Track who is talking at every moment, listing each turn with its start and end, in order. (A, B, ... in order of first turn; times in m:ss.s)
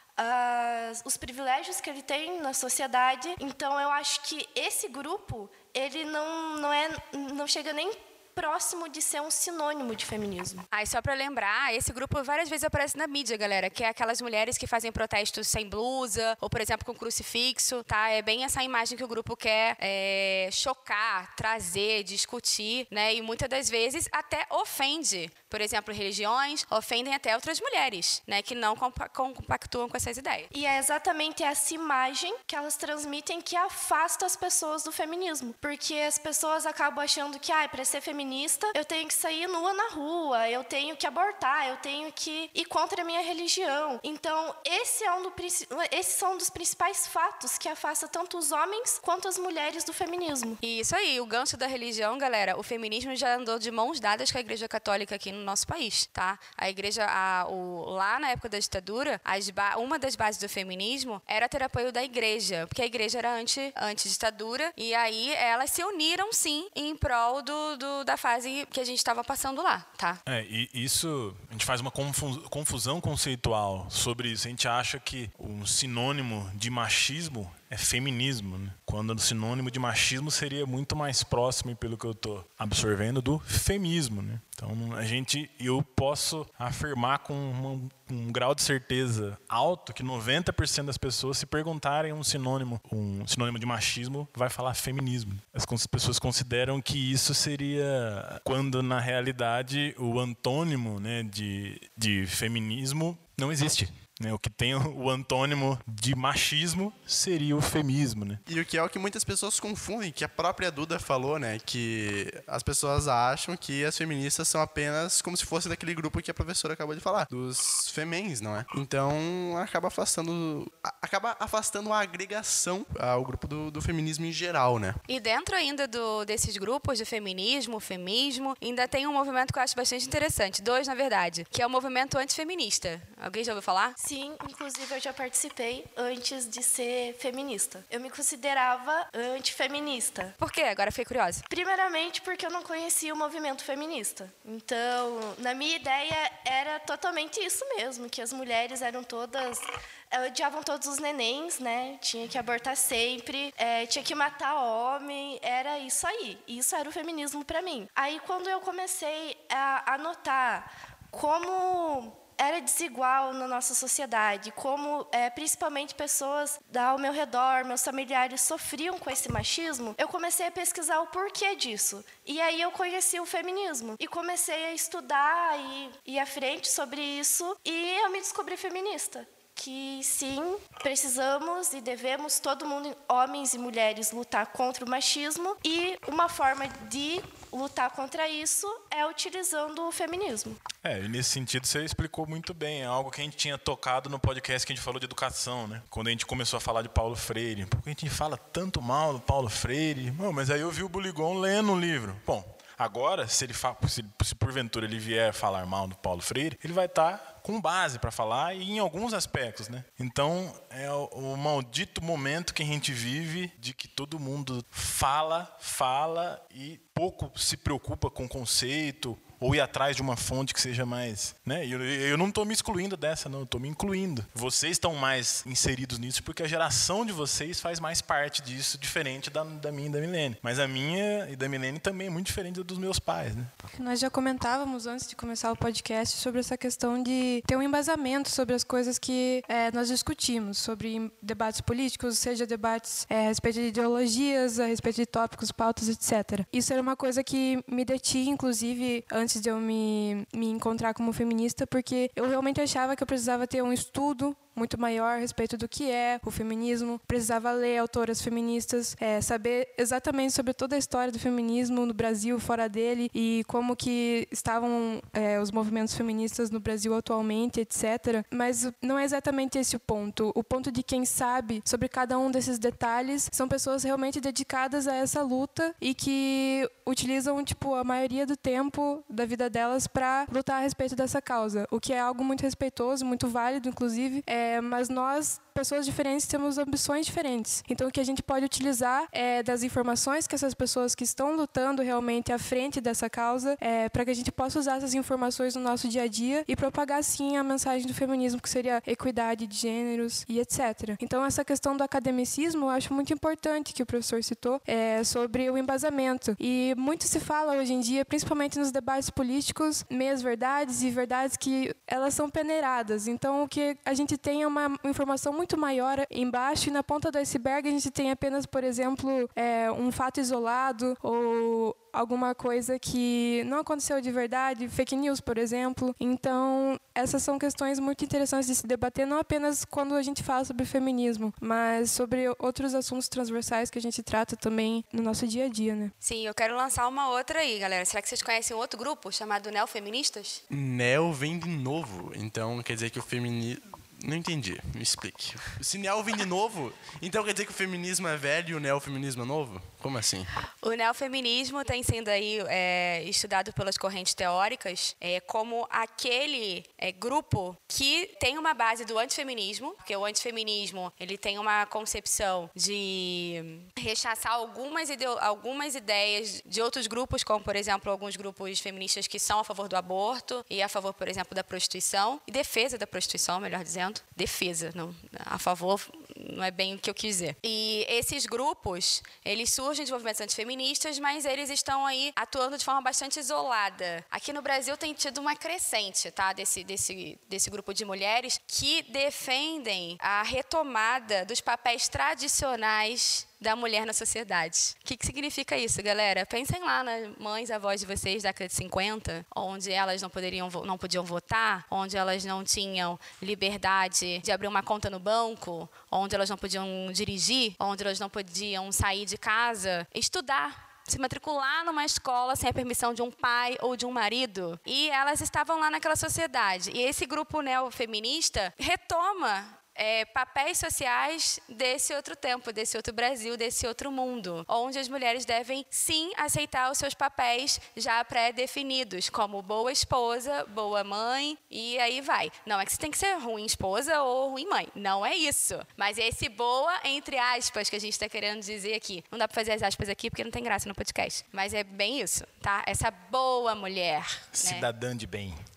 0:00.2-0:10.6 A
0:10.7-0:30.5 B
0:30.5-0:50.6 A
0:50.6-1:10.2 B
1:10.3-1:48.4 C
1:48.5-2:05.0 D
2:05.1-2:14.0 B
2:14.0-2:20.4 A
2:20.4-2:21.5 B
2:21.5-3:10.6 A
3:10.8-3:53.5 C
3:53.7-5:35.9 E
5:36.0-5:40.4 B
5:40.5-5:50.3 D
5:50.6-7:24.7 B
7:24.4-7:25.4 C